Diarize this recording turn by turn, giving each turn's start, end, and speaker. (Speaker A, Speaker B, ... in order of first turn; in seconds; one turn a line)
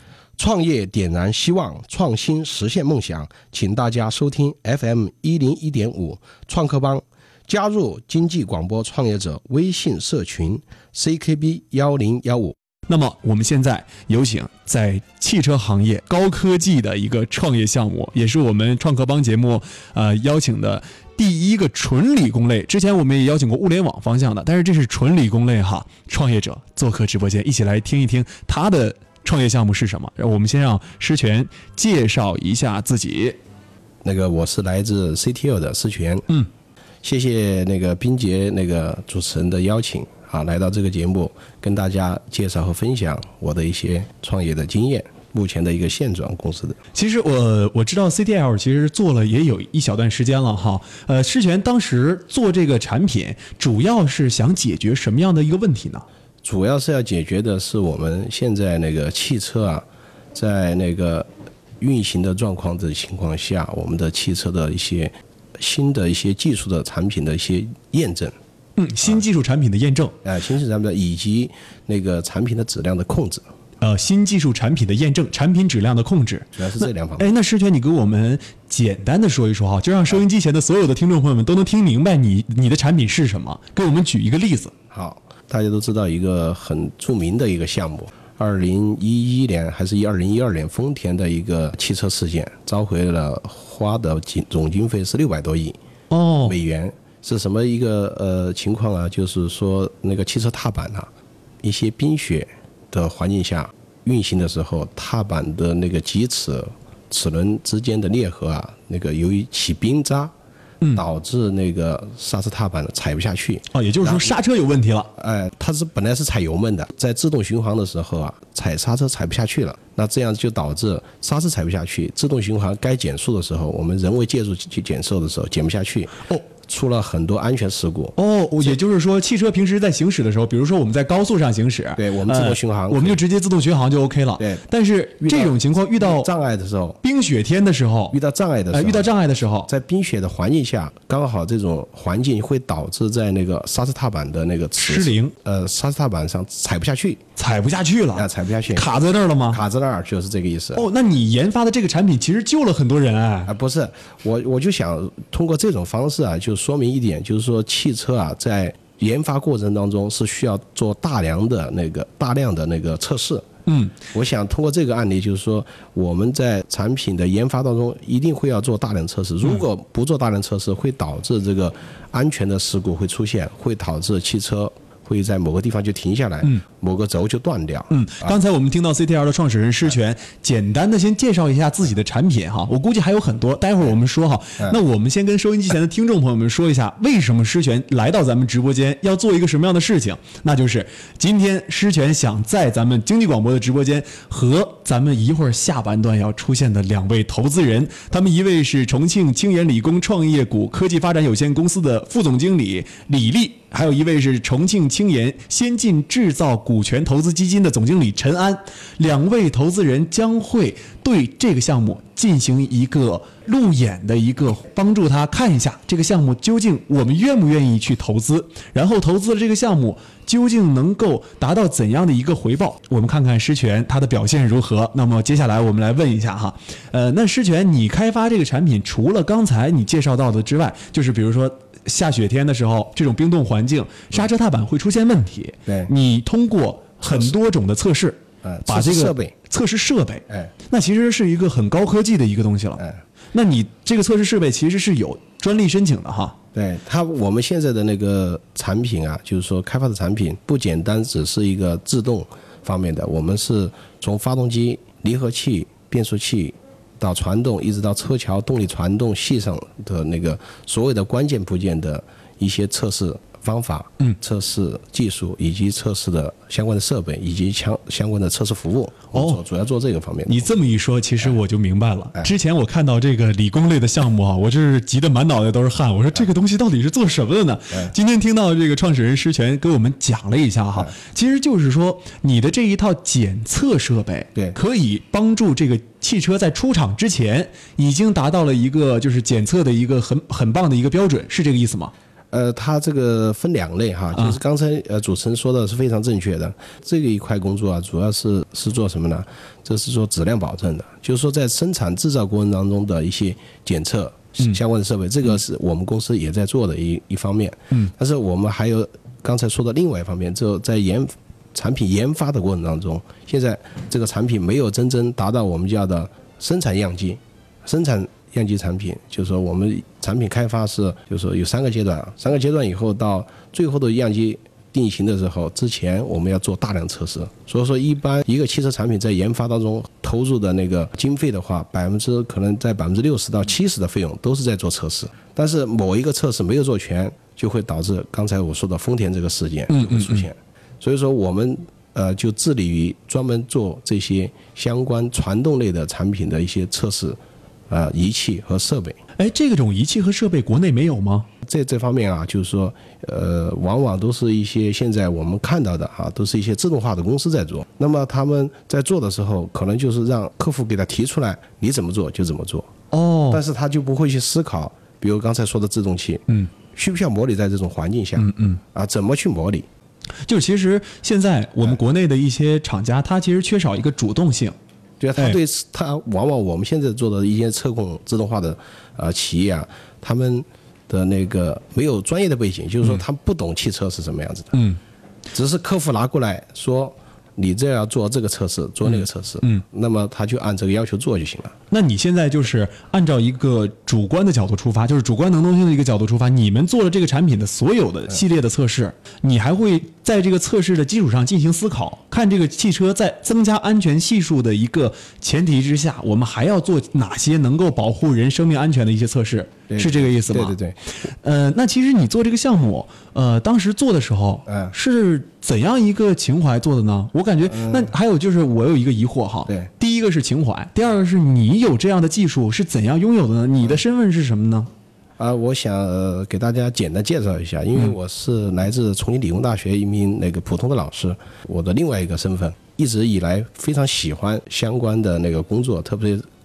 Speaker A: 0.4-12.5
Speaker B: 12.9-33.4
Speaker A: 34.0-36.4
Speaker A: 37.0-46.8
Speaker B: 46.9-56.0
Speaker A: 56.4-61.3
Speaker A: 61.8-68.3
Speaker B: 68.8-70.2
Speaker A: 70.2-73.5
Speaker B: 73.8-84.7
Speaker A: 76.6-77.3
Speaker A: 84.9-95.8
Speaker B: 96.1-96.5
Speaker A: 96.4-101.1
Speaker A: 101.6-110.3
Speaker A: 110.9-114.3
Speaker B: 113.7-115.1
Speaker A: 115.2-128.2
Speaker B: 128.2-136.3
Speaker A: 132.0-133.2
Speaker A: 135.2-137.0
Speaker B: 137.0-138.2
Speaker A: 138.1-139.1
Speaker B: 138.7-139.7
Speaker A: 139.7-147.2
Speaker B: 144.8-145.3
Speaker B: 147.4-149.6
Speaker A: 148.1-148.9
Speaker A: 149.5-150.8
Speaker B: 150.7-153.5
Speaker A: 153.5-163.5
Speaker B: 163.7-163.9
Speaker A: 164.1-178.3
Speaker B: 177.9-246.4
Speaker A: 235.7-235.9
Speaker A: 238.4-239.3
Speaker A: 246.5-270.5
Speaker B: 269.1-269.4
Speaker B: 270.3-291.9
Speaker A: 292.3-347.2
Speaker B: 339.7-340.2
Speaker A: 347.7-349.0
Speaker B: 349.2-351.3
Speaker A: 351.4-362.7
Speaker B: 362.9-363.4
Speaker A: 363.3-369.6
Speaker B: 368.2-368.6
Speaker B: 370.2-374.5
Speaker A: 375.0-384.6
Speaker B: 384.5-384.8
Speaker A: 385.3-391.6
Speaker B: 391.7-424.7
Speaker A: 409.7-410.8
Speaker A: 414.4-414.7
Speaker A: 417.5-417.9
Speaker A: 425.2-436.3